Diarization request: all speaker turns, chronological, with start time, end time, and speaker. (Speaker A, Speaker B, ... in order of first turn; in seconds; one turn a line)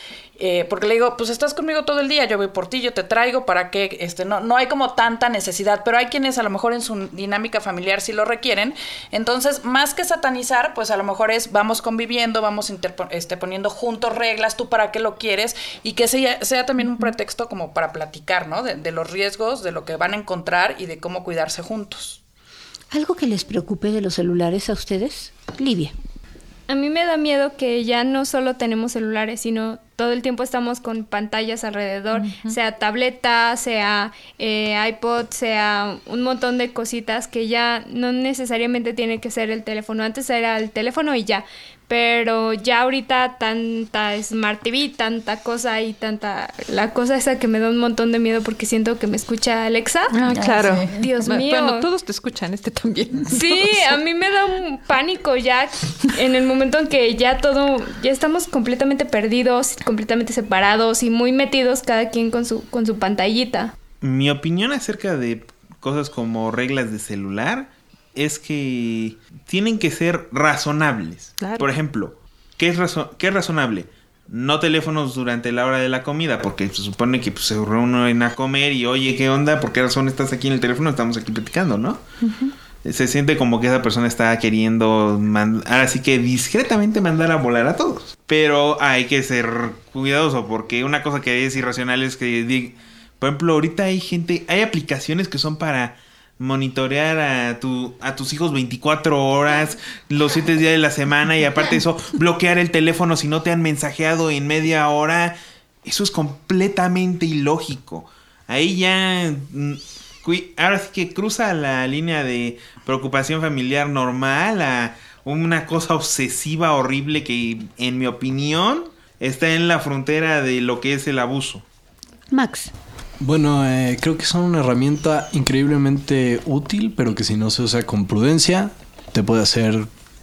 Speaker A: 0.4-22.2
Speaker B: 22.9-25.9
Speaker C: 26.7-50.2
Speaker D: 50.1-54.0
Speaker C: 50.9-51.8
Speaker C: 53.3-63.7
Speaker E: 64.0-82.0
Speaker D: 71.4-71.7
Speaker D: 82.2-82.5
Speaker E: 82.8-121.6
Speaker B: 122.3-122.7
Speaker F: 123.2-129.9